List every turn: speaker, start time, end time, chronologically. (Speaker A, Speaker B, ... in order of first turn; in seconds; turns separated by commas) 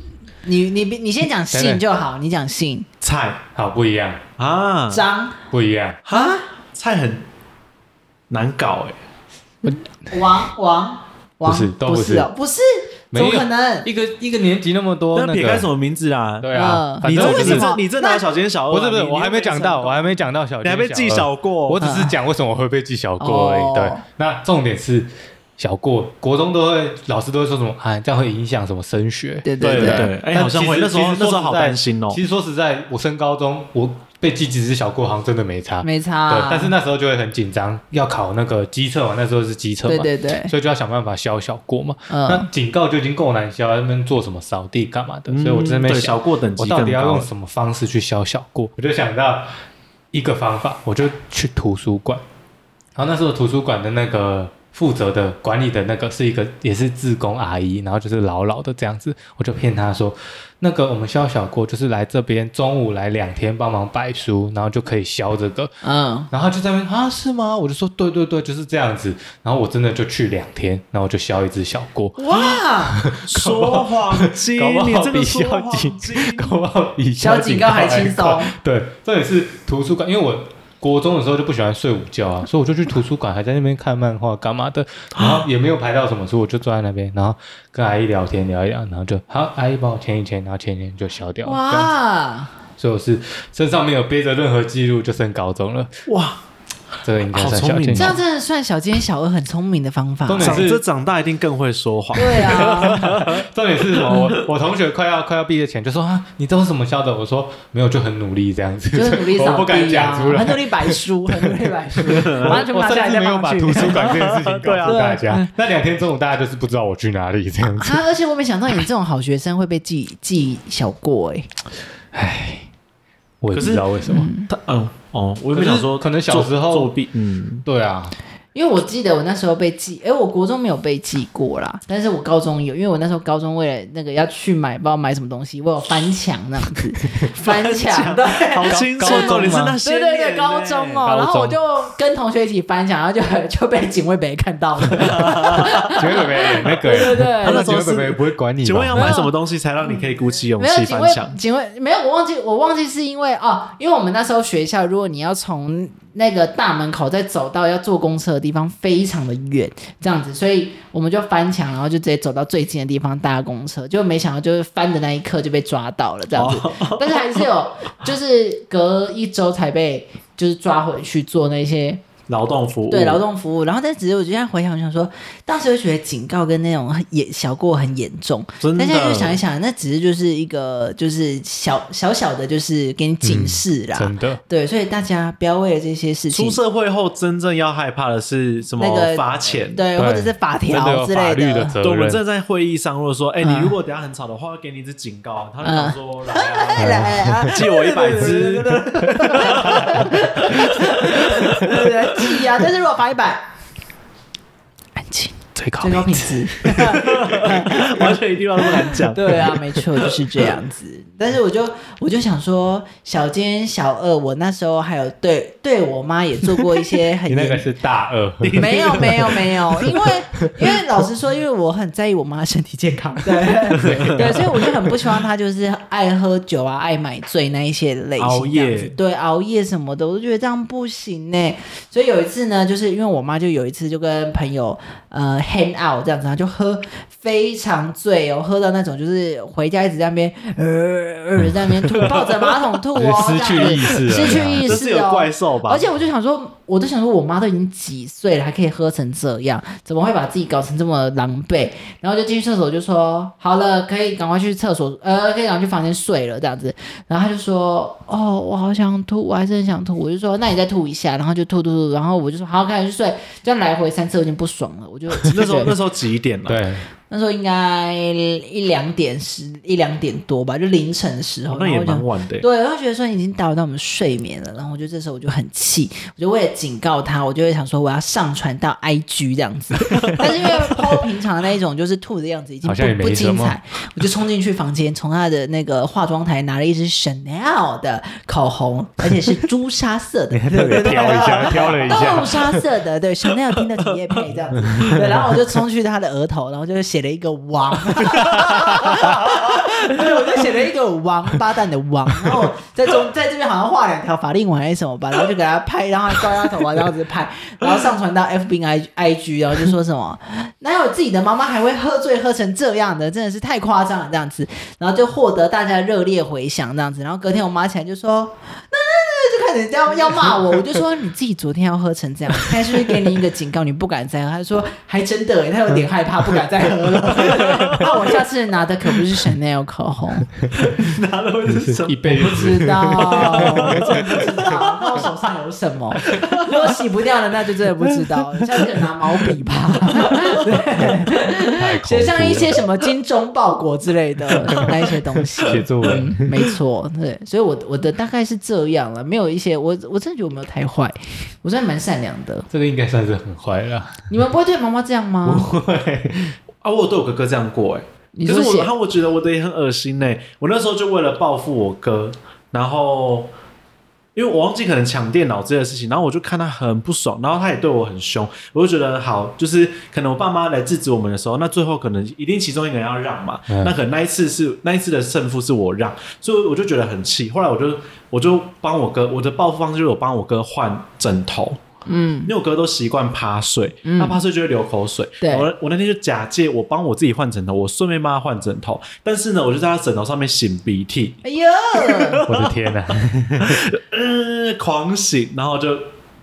Speaker A: 0.5-2.9, Speaker B: 1.5-1.8, Speaker C: 3.0-3.4, Speaker B: 3.5-4.2, Speaker C: 4.4-5.0, Speaker A: 4.9-5.3, Speaker B: 5.5-6.0, Speaker C: 6.0-7.3, Speaker A: 6.1-6.5, Speaker C: 8.3-9.0, Speaker A: 10.1-13.9, Speaker B: 11.4-12.3, Speaker B: 13.1-15.7, Speaker C: 15.2-16.5, Speaker B: 16.4-17.7, Speaker A: 16.5-18.2, Speaker C: 17.0-21.9, Speaker B: 18.7-49.6, Speaker A: 21.8-22.1, Speaker A: 23.2-24.0, Speaker A: 29.4-30.1, Speaker C: 29.6-32.2, Speaker A: 35.8-36.7, Speaker A: 39.9-40.5, Speaker A: 42.1-42.5, Speaker C: 45.3-47.3, Speaker B: 50.1-52.2, Speaker B: 53.0-65.8, Speaker A: 65.8-66.3, Speaker B: 66.3-91.9, Speaker A: 72.2-73.0, Speaker C: 73.2-76.6, Speaker A: 77.2-78.5, Speaker A: 91.4-92.5, Speaker B: 92.8-95.9, Speaker C: 96.1-96.4, Speaker B: 97.0-98.2, Speaker C: 97.3-98.2, Speaker A: 98.0-100.7, Speaker B: 100.3-100.8, Speaker C: 100.4-104.4, Speaker A: 102.1-103.0, Speaker B: 102.5-118.0, Speaker A: 108.9-114.2, Speaker C: 112.0-112.7, Speaker C: 113.8-115.2, Speaker A: 114.8-115.5, Speaker A: 117.8-121.5, Speaker B: 122.1-122.7, Speaker B: 123.4-124.3, Speaker C: 123.5-123.9, Speaker A: 124.0-124.5, Speaker C: 124.5-127.7, Speaker B: 125.5-126.9, Speaker B: 127.7-128.2, Speaker A: 128.6-147.7, Speaker C: 137.3-141.1, Speaker B: 138.7-139.8, Speaker B: 141.1-141.6, Speaker C: 145.0-146.0, Speaker B: 145.8-149.2, Speaker C: 147.1-151.4, Speaker A: 148.9-149.3, Speaker A: 150.6-172.0, Speaker C: 166.3-167.4, Speaker C: 172.3-173.2, Speaker A: 172.9-186.6, Speaker C: 178.6-179.4, Speaker B: 183.2-184.4, Speaker C: 186.3-189.8, Speaker A: 188.8-191.7, Speaker B: 190.0-192.2, Speaker C: 191.8-202.4, Speaker A: 193.4-193.7, Speaker A: 195.6-203.4, Speaker B: 196.8-197.6, Speaker B: 199.2-200.1, Speaker A: 205.0-217.7, Speaker B: 205.6-206.9, Speaker C: 206.7-210.4, Speaker B: 217.3-219.3, Speaker C: 218.4-220.1, Speaker A: 218.6-265.7, Speaker C: 223.7-224.4, Speaker B: 223.7-224.7, Speaker C: 228.2-228.9, Speaker C: 242.1-242.3, Speaker B: 242.9-244.7, Speaker C: 243.8-245.8, Speaker C: 265.3-266.7, Speaker B: 266.5-266.9, Speaker A: 267.1-330.3, Speaker C: 271.5-272.5, Speaker B: 282.6-283.6, Speaker B: 290.3-292.6, Speaker C: 291.1-292.2, Speaker B: 294.7-295.0, Speaker B: 298.5-299.0, Speaker C: 327.1-328.0, Speaker B: 330.4-330.7, Speaker C: 330.6-335.1, Speaker B: 331.5-334.4, Speaker A: 332.2-352.5, Speaker C: 336.0-336.8, Speaker C: 340.3-340.6, Speaker B: 340.8-342.6, Speaker B: 345.4-346.4, Speaker B: 352.5-354.1, Speaker A: 354.1-355.5, Speaker B: 355.2-356.4, Speaker C: 356.6-363.3, Speaker A: 358.1-358.7, Speaker C: 364.1-381.6, Speaker B: 373.5-373.8, Speaker A: 381.9-382.3, Speaker C: 382.2-395.9, Speaker A: 383.8-384.2, Speaker A: 385.2-385.5, Speaker A: 391.2-392.2, Speaker B: 392.3-393.6